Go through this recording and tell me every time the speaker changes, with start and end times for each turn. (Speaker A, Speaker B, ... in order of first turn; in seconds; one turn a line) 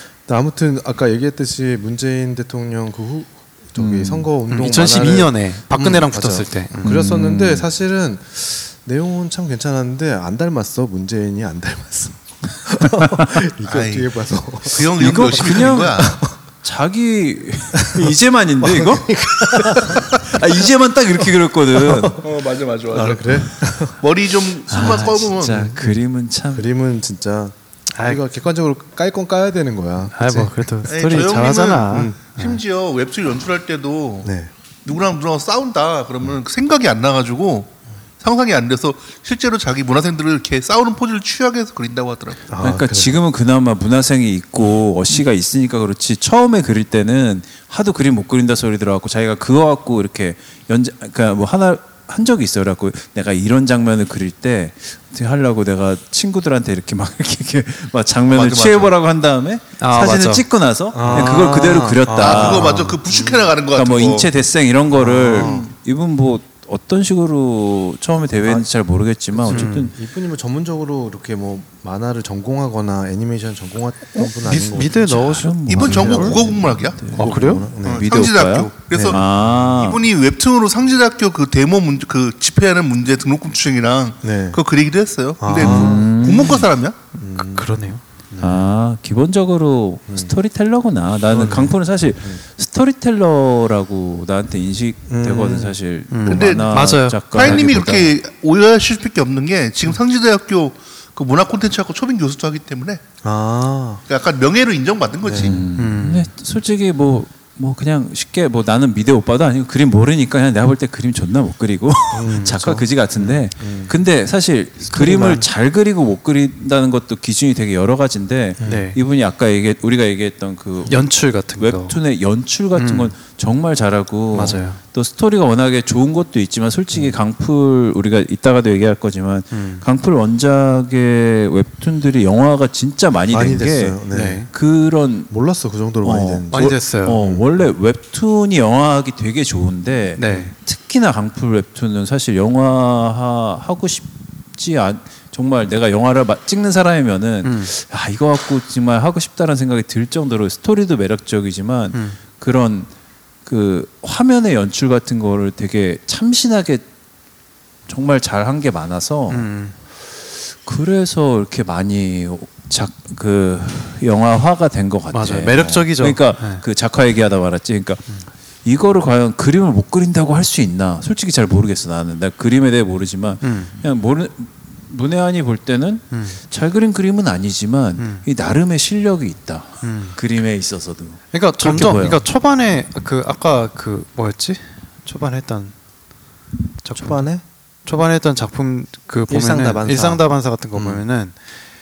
Speaker A: 0.2-16.4
Speaker B: 3.8-4.3
Speaker C: 4.5-7.0
Speaker B: 6.8-7.7
Speaker D: 13.7-14.1
Speaker D: 14.6-16.1
Speaker B: 15.0-22.2
Speaker A: 17.8-20.6
Speaker A: 21.7-22.2
Speaker D: 22.2-23.4
Speaker A: 22.9-24.0
Speaker D: 24.0-25.7
Speaker B: 24.7-26.7
Speaker A: 25.6-25.9
Speaker A: 26.5-31.3
Speaker C: 27.9-28.2
Speaker C: 30.1-32.6
Speaker D: 30.9-34.3
Speaker A: 31.9-32.4
Speaker A: 34.2-34.5
Speaker D: 34.8-42.4
Speaker A: 42.5-43.2
Speaker B: 42.6-62.9
Speaker D: 58.3-58.9
Speaker C: 59.8-60.4
Speaker A: 60.9-63.5
Speaker D: 62.2-64.3
Speaker B: 63.7-69.9
Speaker A: 64.9-65.7
Speaker A: 68.4-68.7
Speaker A: 69.3-75.1
Speaker C: 69.5-69.9
Speaker C: 74.1-75.8
Speaker B: 74.7-80.0
Speaker D: 75.7-77.2
Speaker A: 75.8-78.3
Speaker C: 77.1-77.6
Speaker D: 77.8-87.0
Speaker A: 78.9-79.6
Speaker A: 84.2-84.6
Speaker A: 85.4-86.5
Speaker B: 85.6-86.7
Speaker A: 87.2-87.7
Speaker C: 87.3-88.0
Speaker A: 88.3-88.7
Speaker B: 88.4-98.1
Speaker A: 90.1-90.3
Speaker A: 91.3-92.4
Speaker A: 95.1-95.8
Speaker C: 96.1-97.6
Speaker D: 96.3-96.8
Speaker D: 97.3-103.0
Speaker A: 103.2-104.0
Speaker D: 104.1-105.6
Speaker A: 105.2-105.6
Speaker B: 105.3-134.0
Speaker C: 105.8-106.3
Speaker A: 112.1-113.9
Speaker C: 112.2-112.8
Speaker C: 114.9-115.4
Speaker A: 114.9-115.3
Speaker A: 118.6-118.8
Speaker C: 118.6-119.0
Speaker C: 120.9-122.0
Speaker C: 122.7-123.1
Speaker C: 124.3-124.8
Speaker C: 129.5-129.8
Speaker A: 133.3-134.4
Speaker C: 134.1-134.5
Speaker B: 134.5-135.3
Speaker A: 135.3-137.4
Speaker B: 136.0-152.9
Speaker C: 136.5-137.2
Speaker C: 140.2-140.5
Speaker C: 147.4-147.7
Speaker C: 151.9-152.2
Speaker B: 153.4-156.8
Speaker B: 157.9-159.5
Speaker C: 159.3-159.7
Speaker B: 160.6-168.1
Speaker C: 165.1-166.6
Speaker B: 168.6-182.2
Speaker C: 173.4-173.7
Speaker C: 176.1-176.4
Speaker C: 178.0-178.2
Speaker C: 179.8-180.2
Speaker C: 181.3-185.7
Speaker C: 186.8-187.2
Speaker A: 186.9-187.4
Speaker C: 187.8-191.3
Speaker A: 189.3-191.0